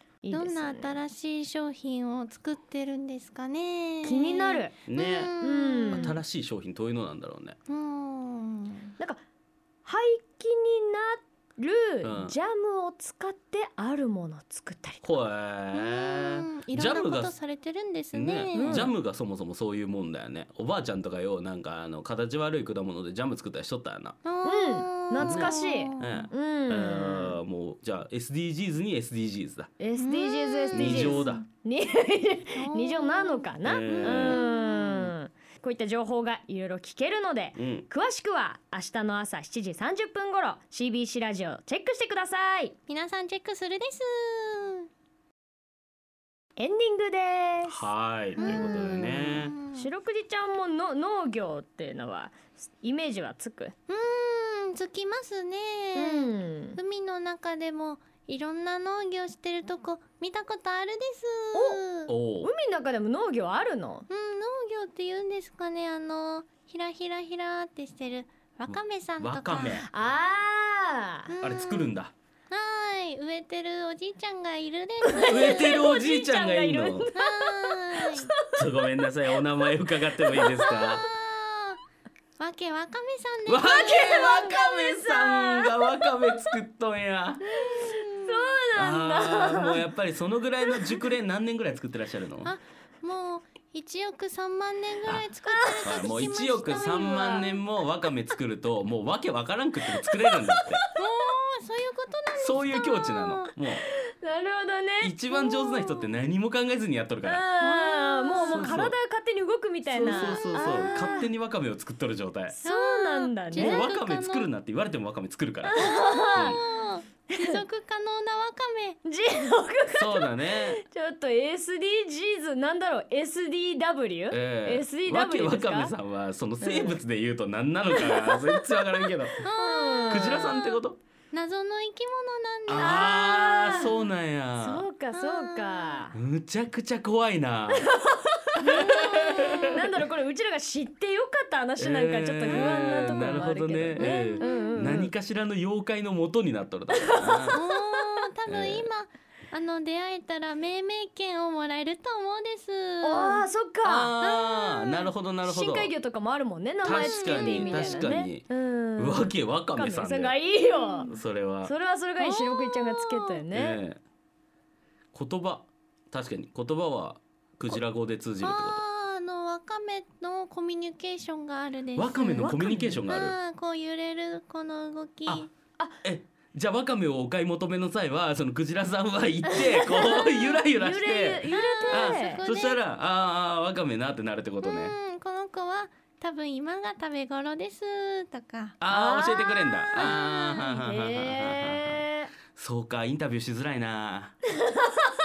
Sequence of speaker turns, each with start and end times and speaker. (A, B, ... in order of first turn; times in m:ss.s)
0:00.2-0:01.0 A
0:00.3-0:06.2 B
0:04.0-0:04.7 A
0:04.9-0:05.4 C
0:05.4-0:06.2 A
0:05.9-0:07.6 C
0:07.7-0:08.9 B
0:09.8-0:15.2 A
0:12.0-0:12.3 C
0:15.0-0:17.4 C
0:15.7-0:18.9 B
0:18.1-0:24.2 C
0:18.5-0:18.9 A
0:24.2-0:26.3 B
0:24.4-0:27.4 A
0:25.2-0:29.7 C
0:29.8-0:42.8 A
0:30.0-0:31.5 B
0:30.7-0:31.4 C
0:32.6-0:35.1 B
0:33.6-0:34.4 C
0:37.6-0:37.9 C
0:42.9-0:44.9 B
0:46.6-0:53.7 A
0:47.6-0:49.6 C
0:48.4-0:49.9 B
0:53.9-1:02.1 B
0:56.0-0:56.8 A
1:01.5-1:01.8 A
1:02.1-1:02.5 C
1:02.4-1:04.1 A
1:04.1-1:09.9 B
1:08.7-1:09.9 C
1:09.9-1:11.3 A
1:11.3-1:12.0 B
1:11.4-1:12.1 C
1:12.5-1:16.0 B
1:15.0-1:21.0 A
1:15.3-1:17.1 C
1:17.1-1:18.3 B
1:18.5-1:21.1 C
1:20.5-1:21.8 B
1:22.4-1:24.7 B
1:23.5-1:27.6 C
1:23.9-1:26.6 A
1:27.5-1:29.9 A
1:27.6-1:28.6 B
1:28.8-1:32.5 C
1:32.4-1:37.6 B
1:35.5-1:35.8 A
1:35.8-1:40.8 C
1:40.0-1:41.0 A
1:41.0-1:43.5 B
1:42.4-1:43.8 C
1:43.8-1:45.2 A
1:45.0-1:47.4 C
1:47.2-1:51.3 A
1:47.6-1:48.8 B
1:48.4-1:49.0 C
1:49.9-1:52.6 C
1:50.0-1:51.2 B
1:52.5-1:53.8 A
1:52.6-1:54.5 B
1:53.6-1:56.6 C
1:55.6-1:56.6 A
1:55.8-1:59.0 B
1:59.0-2:05.9 A
2:00.0-2:00.8 C
2:04.3-2:09.4 C
2:06.6-2:07.0 A
2:07.9-2:08.6 A
2:09.4-2:13.1 B
2:09.6-2:10.5 A
2:10.1-2:11.0 C
2:12.7-2:14.9 C
2:12.8-2:16.2 A
2:15.1-2:16.1 B
2:16.1-2:17.9 C
2:17.7-2:25.1 A
2:18.6-2:19.9 B
2:18.6-2:19.8 C
2:21.8-2:27.6 C
2:24.0-2:24.8 B
2:26.9-2:27.6 A
2:27.5-2:33.5 B
2:28.5-2:28.9 C
2:33.0-2:34.1 A
2:33.8-2:35.9 C
2:34.2-2:35.1 B
2:35.4-2:43.8 A
2:36.8-2:40.4 C
2:36.8-2:38.2 B
2:40.7-2:41.2 B
2:41.0-2:41.7 C
2:42.2-2:43.4 B
2:43.5-2:44.0 C
2:45.1-2:48.8 C
2:48.4-2:55.5 B
2:52.0-2:53.4 C
2:52.4-2:53.0 A
2:56.0-3:05.0 C
2:59.5-3:02.5 A
3:01.4-3:02.8 B
3:04.6-3:08.8 B
3:08.8-3:12.0 C
3:08.9-3:10.2 A
3:09.9-3:10.8 B
3:10.7-3:12.3 A
3:12.6-3:14.4 C
3:14.7-3:15.1 A